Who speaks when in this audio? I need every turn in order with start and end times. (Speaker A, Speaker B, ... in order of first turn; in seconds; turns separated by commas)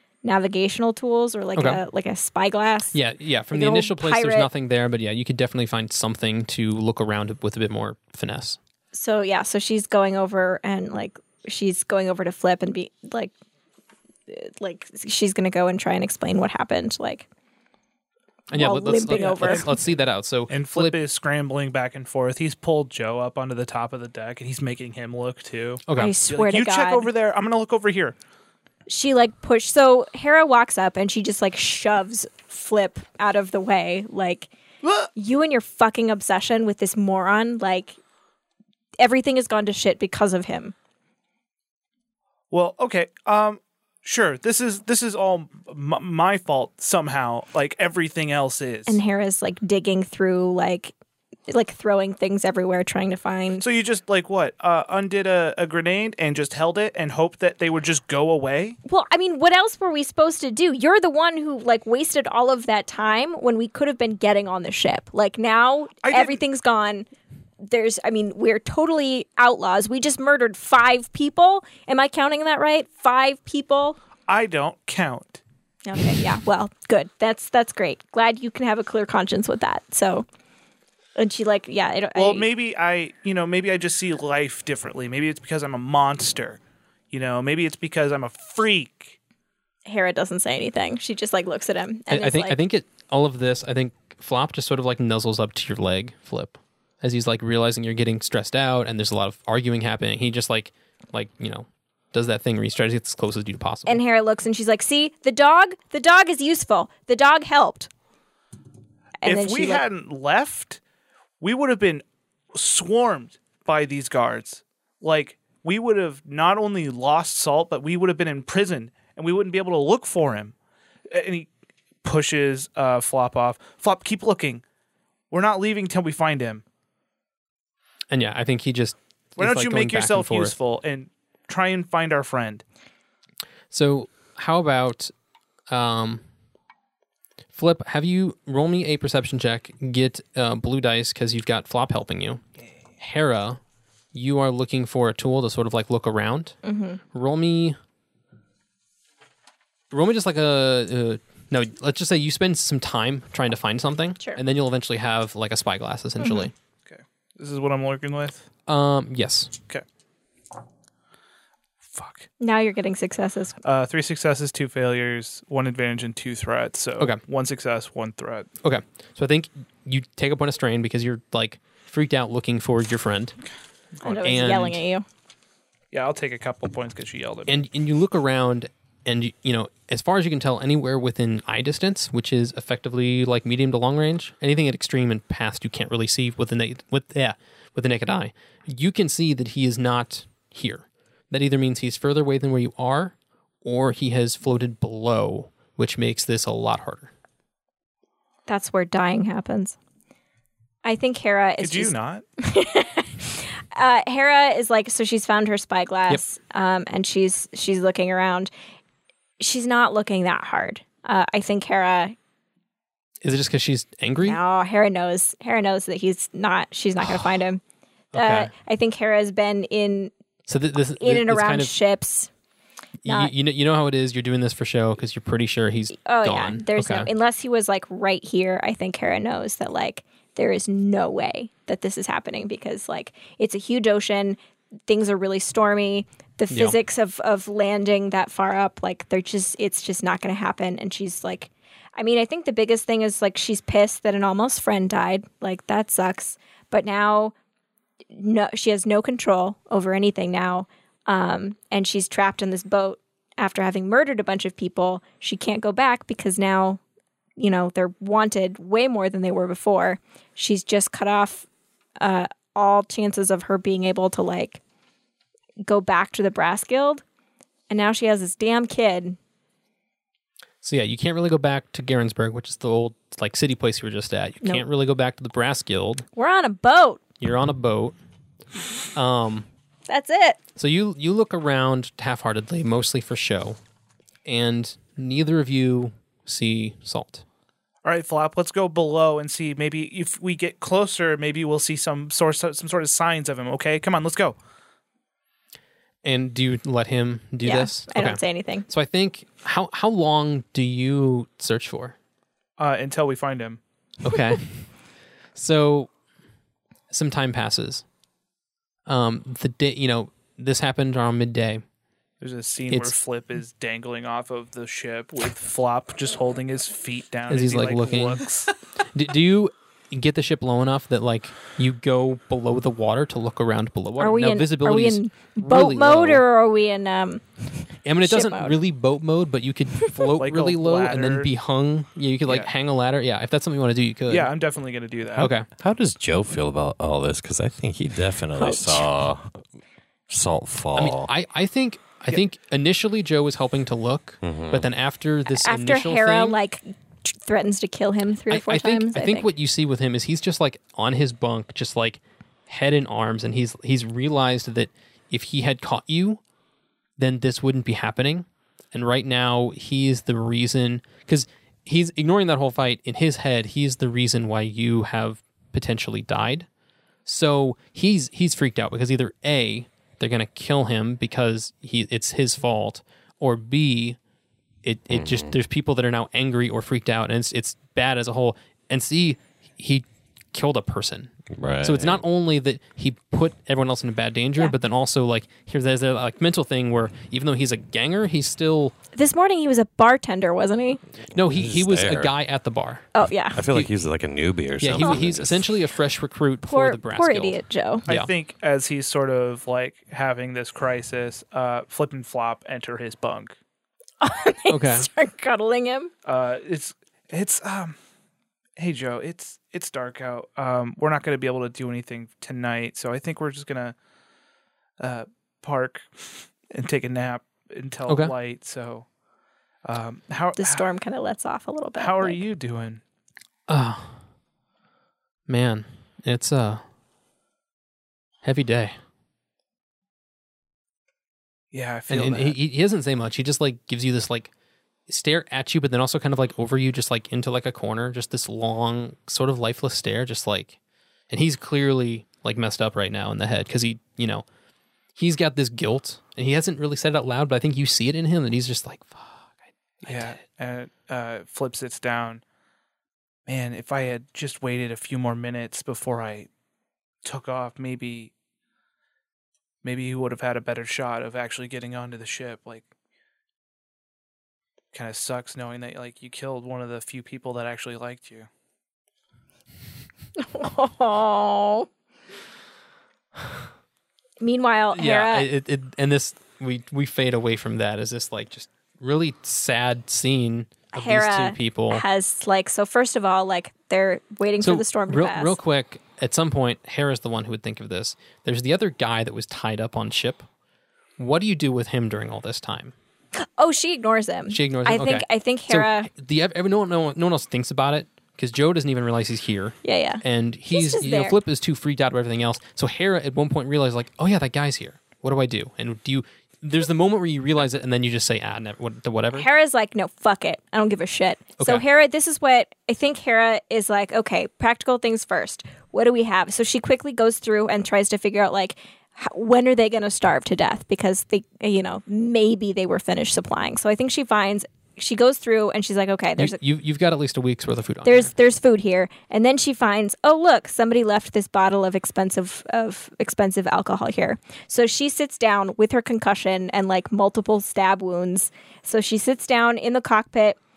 Speaker A: 0.2-3.0, Speaker B: 1.6-1.8, Speaker B: 2.9-8.6, Speaker A: 3.5-4.5, Speaker A: 8.9-13.3, Speaker A: 14.3-17.3, Speaker B: 18.5-21.0, Speaker A: 18.5-19.7, Speaker C: 19.1-19.8, Speaker C: 20.5-28.2, Speaker B: 25.9-26.2, Speaker A: 26.0-27.1, Speaker A: 28.9-34.5, Speaker C: 34.8-35.1, Speaker A: 35.1-38.0, Speaker A: 39.0-40.7, Speaker C: 42.5-49.0, Speaker A: 48.9-50.9, Speaker A: 51.5-53.6, Speaker C: 53.6-58.8, Speaker A: 58.9-67.1, Speaker C: 66.0-66.4, Speaker A: 67.7-74.0, Speaker C: 74.3-75.4, Speaker A: 75.8-80.3, Speaker A: 81.2-82.5, Speaker C: 82.2-86.6, Speaker C: 87.1-89.2, Speaker A: 89.9-92.6, Speaker B: 92.1-104.0, Speaker A: 103.9-107.9, Speaker A: 109.2-109.8, Speaker C: 109.2-110.8, Speaker C: 111.4-120.5, Speaker C: 121.1-121.5, Speaker C: 122.0-124.6, Speaker C: 125.3-126.6, Speaker B: 128.1-130.6, Speaker C: 129.4-132.6, Speaker B: 133.7-135.1, Speaker B: 135.7-136.3, Speaker B: 137.5-142.4, Speaker B: 143.0-143.6, Speaker B: 144.1-146.6, Speaker A: 146.6-147.0, Speaker B: 147.1-147.8, Speaker B: 149.9-156.5, Speaker A: 156.2-156.5, Speaker C: 156.9-158.4, Speaker B: 158.7-159.5, Speaker C: 161.9-162.3, Speaker A: 162.4-163.6, Speaker C: 163.6-168.5, Speaker B: 168.6-173.4, Speaker C: 174.0-174.3, Speaker A: 174.0-175.1, Speaker B: 174.2-174.8, Speaker C: 175.9-177.5, Speaker B: 177.5-197.1, Speaker A: 198.5-199.8, Speaker A: 200.8-208.5, Speaker C: 201.6-202.2, Speaker A: 209.4-212.2, Speaker B: 213.2-214.4, Speaker A: 214.2-217.6, Speaker B: 218.1-218.5, Speaker A: 218.2-220.1, Speaker B: 220.5-221.7, Speaker A: 221.0-222.3, Speaker B: 223.0-227.1, Speaker A: 223.1-223.3, Speaker A: 226.0-247.3, Speaker B: 236.5-236.8, Speaker A: 248.2-256.8, Speaker A: 257.4-261.5, Speaker A: 262.0-264.6, Speaker A: 265.6-267.0, Speaker A: 267.7-269.2, Speaker B: 270.6-276.1, Speaker A: 276.1-277.0, Speaker B: 277.2-278.0, Speaker B: 278.9-279.5, Speaker A: 279.9-280.4, Speaker B: 280.6-283.6, Speaker B: 284.2-287.2, Speaker C: 287.8-294.4, Speaker B: 296.0-302.0, Speaker A: 297.4-298.7, Speaker C: 302.6-303.6, Speaker B: 304.0-306.0, Speaker B: 306.9-307.9, Speaker B: 308.9-311.7, Speaker C: 312.2-318.5, Speaker B: 312.7-312.9, Speaker B: 317.3-318.3, Speaker B: 318.9-326.2, Speaker A: 324.0-328.6, Speaker B: 327.8-334.3, Speaker C: 330.2-331.3, Speaker C: 334.1-335.3, Speaker B: 335.2-335.5, Speaker D: 335.5-339.4, Speaker A: 338.4-338.9, Speaker D: 340.1-341.1, Speaker B: 340.8-346.4, Speaker D: 344.2-344.7, Speaker A: 345.3-349.3, Speaker B: 348.3-356.2, Speaker B: 357.0-366.5, Speaker B: 367.1-374.0, Speaker B: 374.6-388.8, Speaker D: 374.9-375.3, Speaker D: 381.3-382.0, Speaker A: 388.9-390.8, Speaker D: 391.0-392.1, Speaker B: 391.1-393.7, Speaker A: 392.9-393.4, Speaker D: 393.0-395.4, Speaker B: 394.6-398.1, Speaker A: 396.4-397.9, Speaker C: 397.9-403.4, Speaker A: 404.0-405.9, Speaker B: 404.5-404.9, Speaker C: 406.1-407.8, Speaker C: 408.6-413.8, Speaker C: 414.8-418.9, Speaker B: 417.9-418.1, Speaker C: 419.6-420.6, Speaker A: 420.4-422.2, Speaker C: 421.8-422.8, Speaker B: 423.5-424.1, Speaker B: 425.3-426.6, Speaker B: 428.2-428.8, Speaker C: 431.5-432.4, Speaker B: 431.9-434.3, Speaker B: 434.9-440.6, Speaker B: 441.1-444.3, Speaker B: 444.9-450.2, Speaker C: 449.8-452.2, Speaker C: 453.3-456.3, Speaker C: 457.0-458.1, Speaker C: 459.6-462.7, Speaker C: 464.7-468.3, Speaker A: 470.2-471.7, Speaker A: 474.2-475.3, Speaker B: 474.7-481.8, Speaker A: 480.7-485.4, Speaker B: 484.4-490.3, Speaker B: 491.0-492.7, Speaker A: 493.1-495.9, Speaker B: 494.3-509.3, Speaker A: 499.6-501.2, Speaker A: 509.1-526.4, Speaker B: 526.2-528.1, Speaker A: 527.9-540.4